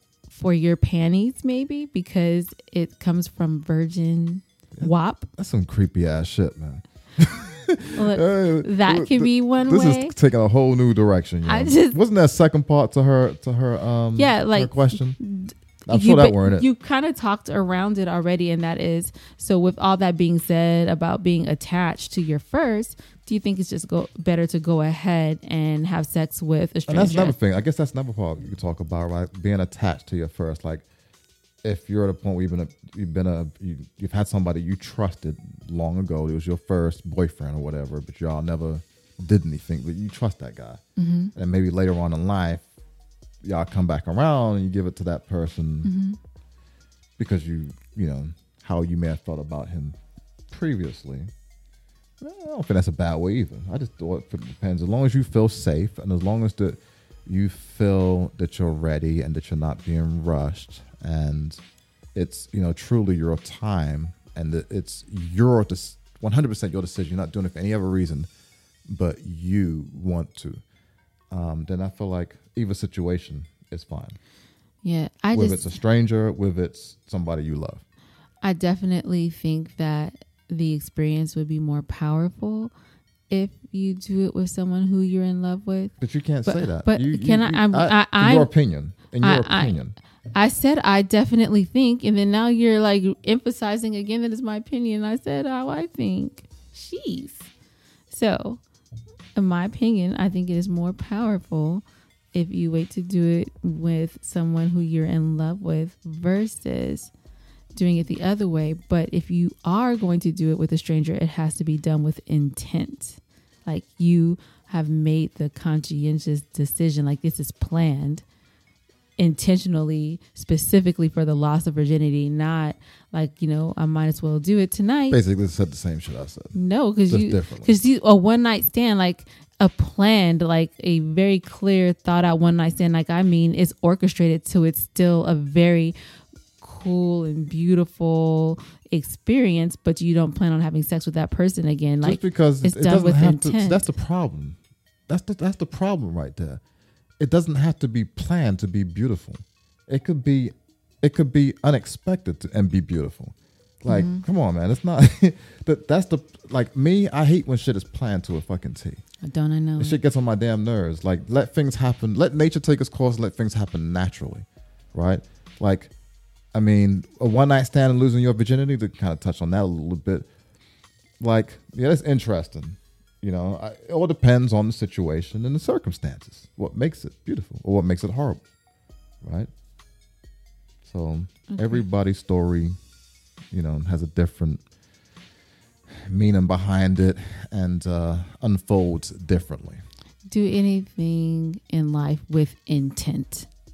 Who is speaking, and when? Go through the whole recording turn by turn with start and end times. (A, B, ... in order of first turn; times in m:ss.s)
0:00.3-0:05.3 A
0:04.8-0:15.2 B
0:08.0-0:10.2 A
0:11.4-0:12.0 A
0:14.2-0:27.4 A
0:15.9-0:16.7 B
0:26.9-0:30.8 B
0:31.6-0:40.8 B
0:41.0-0:41.3 A
0:41.4-0:42.6 B
0:43.4-0:45.9 B
0:45.8-0:46.2 A
0:47.2-0:50.0 B
0:50.5-0:51.3 B
0:52.2-1:01.6 B
1:02.2-1:08.3 B
1:08.9-1:10.6 B
1:11.3-1:14.2 B
1:14.8-1:15.7 A
1:15.3-1:17.8 B
1:18.4-1:22.7 A
1:23.3-1:25.9 A
1:26.0-1:30.0 B
1:26.4-1:28.5 A
1:29.2-1:29.8 A
1:30.4-1:37.5 A
1:38.1-1:38.6 A
1:39.4-1:47.1 A
1:47.8-1:58.2 A
1:59.2-2:05.2 A
2:05.1-2:06.6 B
2:06.5-2:16.0 A
2:07.1-2:07.7 B
2:16.6-2:23.9 A
2:22.0-2:24.6 B
2:25.1-2:26.6 B
2:27.2-2:39.0 B
2:33.9-2:34.2 A
2:39.2-2:40.0 A
2:39.8-2:45.9 B
2:46.5-2:50.3 B
2:51.2-2:58.4 B
2:59.2-2:59.5 B
3:00.8-3:02.8 B
3:01.5-3:01.8 A
3:03.5-3:04.6 B
3:06.0-3:09.8 B
3:10.3-3:13.5 A